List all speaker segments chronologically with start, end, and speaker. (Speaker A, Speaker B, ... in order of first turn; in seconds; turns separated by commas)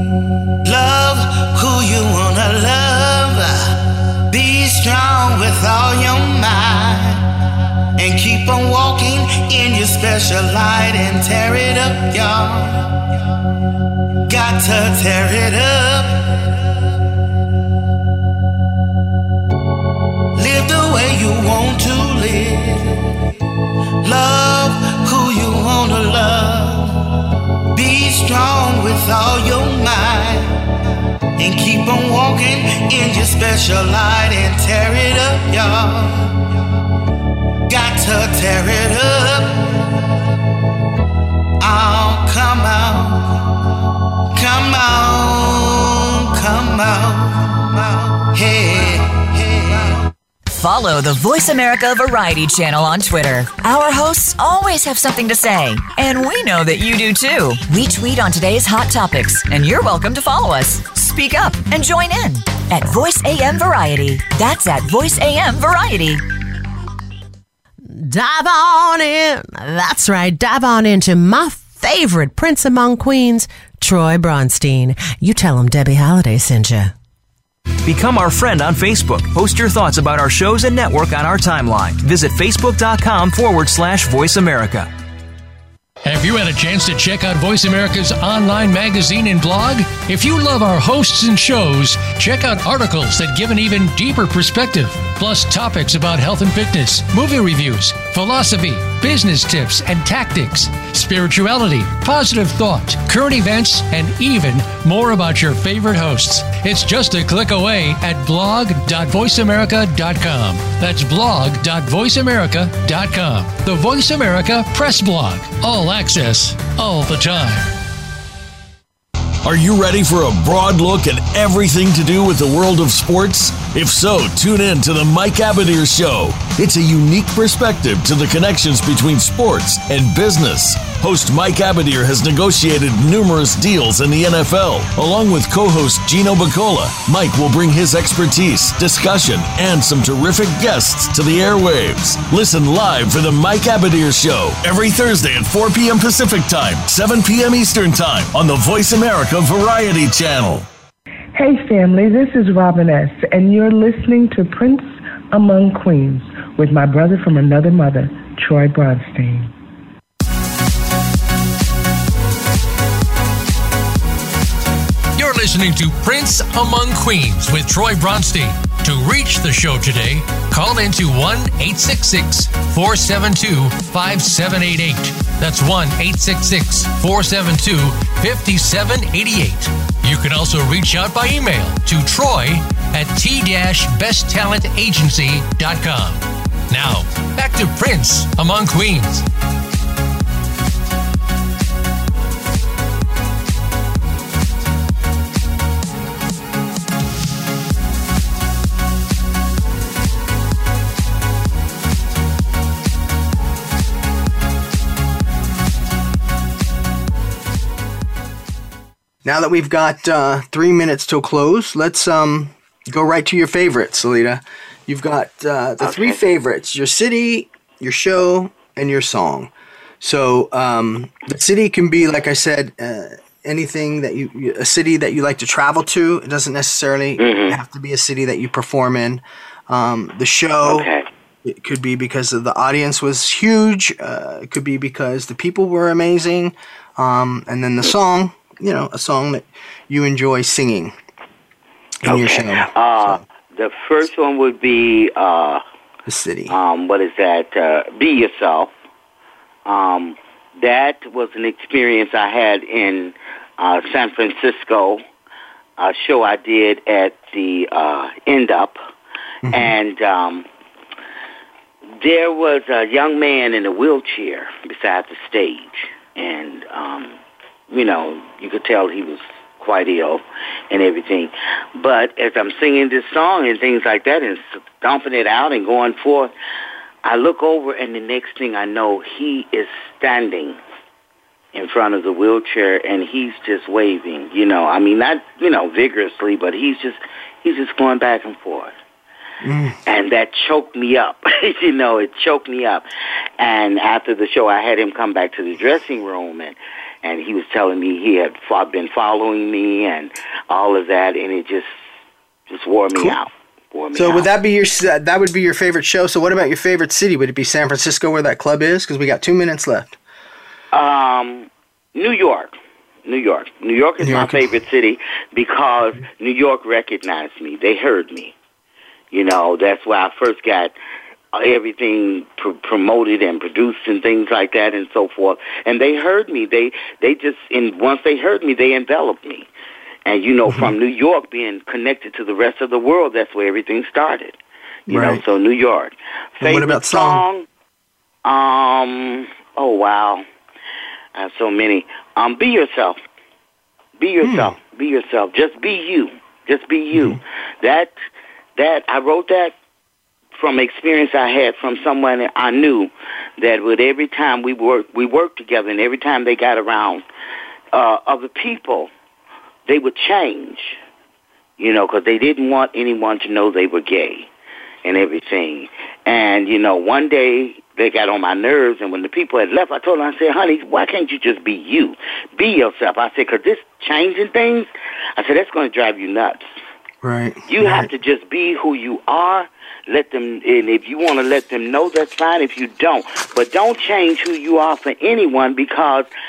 Speaker A: 0.6-3.7, Speaker A: 4.3-7.2, Speaker A: 8.0-13.0, Speaker A: 14.3-16.5, Speaker A: 20.3-23.2, Speaker A: 24.0-26.9, Speaker A: 27.7-30.6, Speaker A: 31.4-36.4, Speaker A: 37.7-39.9, Speaker A: 41.6-43.4, Speaker A: 44.3-50.0, Speaker B: 50.5-66.2, Speaker C: 67.9-76.9, Speaker D: 77.8-84.9, Speaker E: 86.0-117.7, Speaker F: 119.4-150.7, Speaker G: 151.3-159.5, Speaker E: 165.2-189.2, Speaker H: 209.2-230.9, Speaker I: 215.8-216.2, Speaker I: 227.2-227.6, Speaker I: 230.6-231.1, Speaker H: 231.4-240.9, Speaker H: 242.0-243.2, Speaker I: 242.0-245.6, Speaker H: 246.1-246.5, Speaker I: 246.5-248.7, Speaker I: 249.7-255.0, Speaker I: 255.8-258.8, Speaker H: 259.4-259.7, Speaker I: 259.5-260.5, Speaker I: 262.0-267.2, Speaker I: 267.7-276.3, Speaker I: 277.0-280.6, Speaker I: 281.5-288.7, Speaker H: 289.4-289.8, Speaker I: 289.9-292.8, Speaker I: 293.4-301.8, Speaker I: 302.5-304.3, Speaker H: 303.9-310.0, Speaker I: 310.7-318.3, Speaker H: 314.0-314.4, Speaker I: 319.1-320.7, Speaker I: 321.3-329.5, Speaker I: 330.1-337.4, Speaker H: 330.5-330.7, Speaker H: 334.9-335.2, Speaker H: 336.4-337.2, Speaker I: 338.2-340.2, Speaker I: 341.1-343.0, Speaker I: 344.0-347.9, Speaker H: 344.2-344.5, Speaker H: 346.9-347.2, Speaker I: 348.6-349.5, Speaker I: 350.3-357.0, Speaker I: 357.7-358.9, Speaker I: 359.7-360.8, Speaker I: 361.6-364.3, Speaker I: 364.8-376.4, Speaker H: 377.0-377.9, Speaker I: 377.5-386.1